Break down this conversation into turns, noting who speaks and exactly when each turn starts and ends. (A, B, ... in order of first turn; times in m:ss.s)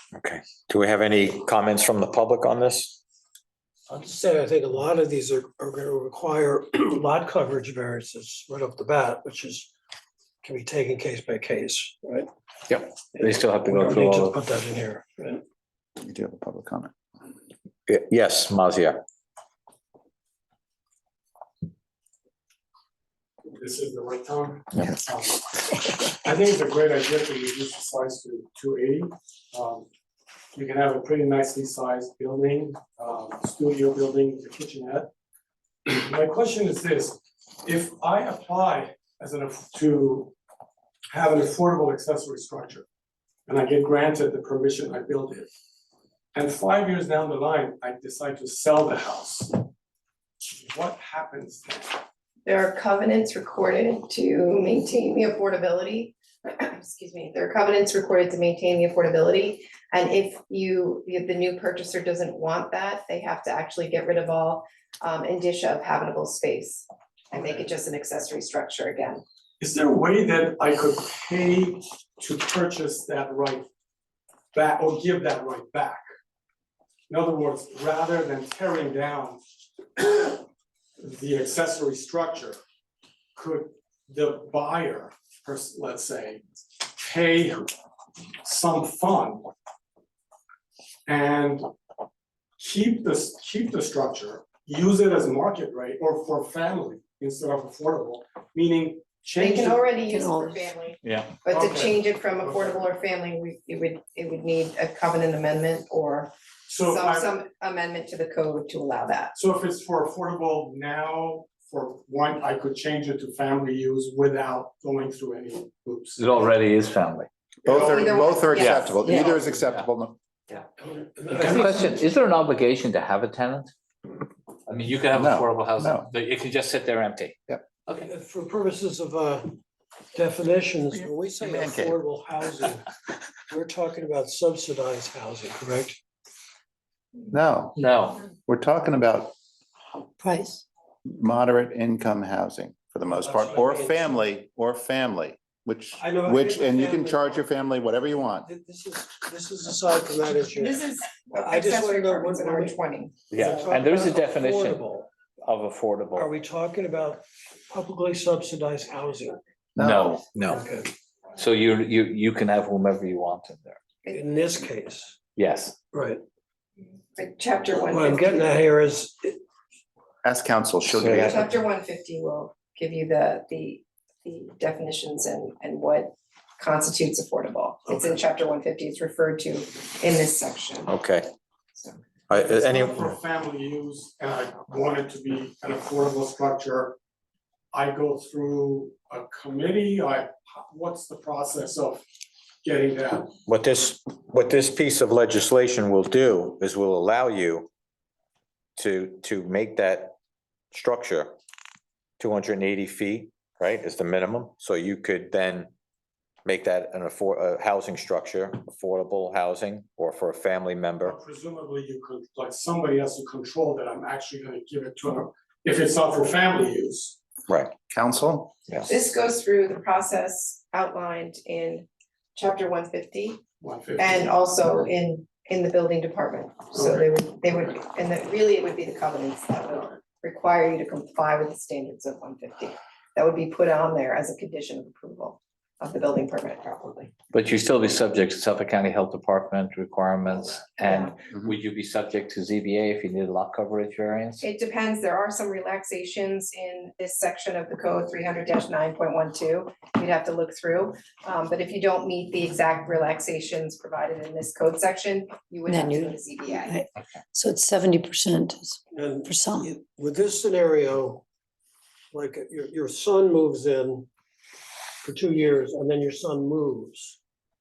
0:00.2-0:03.0 A
0:03.9-0:09.7 B
0:10.4-0:12.3 B
0:12.7-0:14.4 C
0:14.0-0:15.4 B
0:16.0-0:16.9 D
0:17.9-0:19.0 A
0:23.5-0:29.9 E
0:30.5-0:35.1 E
0:35.9-0:40.4 E
0:41.1-0:42.8 E
0:43.5-0:45.5 E
0:46.3-0:49.7 E
0:50.5-0:52.0 E
0:52.4-1:09.2 F
1:09.6-1:13.7 E
1:14.5-1:16.0 E
1:17.1-1:19.4 E
1:20.0-1:20.4 E
1:21.0-1:22.6 E
1:23.4-1:26.4 E
1:27.0-1:27.7 E
1:28.4-1:29.5 E
1:31.1-1:31.7 E
1:32.6-1:40.0 E
1:39.4-1:49.3 F
1:40.0-1:40.7 G
1:41.0-1:41.3 A
1:41.5-1:42.9 E
1:46.7-1:47.3 E
1:49.3-1:56.3 E
1:56.2-1:57.3 C
1:57.6-1:58.4 E
1:57.6-2:00.2 D
1:57.7-1:59.5 F
1:58.5-1:58.9 C
2:00.8-2:01.2 E
2:01.3-2:03.7 C
2:04.7-2:07.4 C
2:05.1-2:06.1 D
2:08.1-2:09.5 B
2:10.1-2:12.8 B
2:10.9-2:12.0 D
2:13.5-2:16.0 B
2:17.3-2:17.8 D
2:17.8-2:18.2 C
2:18.3-2:19.3 D
2:20.2-2:20.6 G
2:21.1-2:28.5 D
2:23.3-2:23.9 B
2:26.0-2:27.1 B
2:28.5-2:30.7 B
2:30.5-2:33.2 F
2:31.5-2:32.7 B
2:33.3-2:36.3 C
2:33.6-2:34.9 B
2:36.3-2:39.4 B
2:39.8-2:40.2 D
2:39.8-2:40.8 C
2:41.4-2:43.8 C
2:44.2-2:45.2 B
2:45.4-2:45.8 C
2:45.9-2:46.2 B
2:47.1-2:48.6 F
2:47.9-2:49.4 B
2:50.2-2:51.5 D
2:50.9-2:51.4 C
2:51.1-3:00.9 F
2:57.9-2:58.2 E
3:00.9-3:01.3 A
3:02.3-3:03.0 A
3:02.3-3:07.0 E
3:07.7-3:12.0 E
3:12.6-3:13.4 E
3:13.5-3:17.7 A
3:18.8-3:20.1 A
3:20.7-3:21.4 A
3:22.2-3:25.7 A
3:26.4-3:31.2 A
3:31.0-3:37.2 E
3:37.9-3:38.5 D
3:38.9-3:43.4 F
3:43.6-3:44.3 E
3:44.0-3:57.1 F
3:46.8-3:47.0 E
3:57.3-4:04.5 C
4:00.8-4:01.2 F
4:04.4-4:16.8 F
4:15.7-4:19.8 G
4:19.8-4:21.2 B
4:22.1-4:24.1 B
4:25.0-4:27.2 B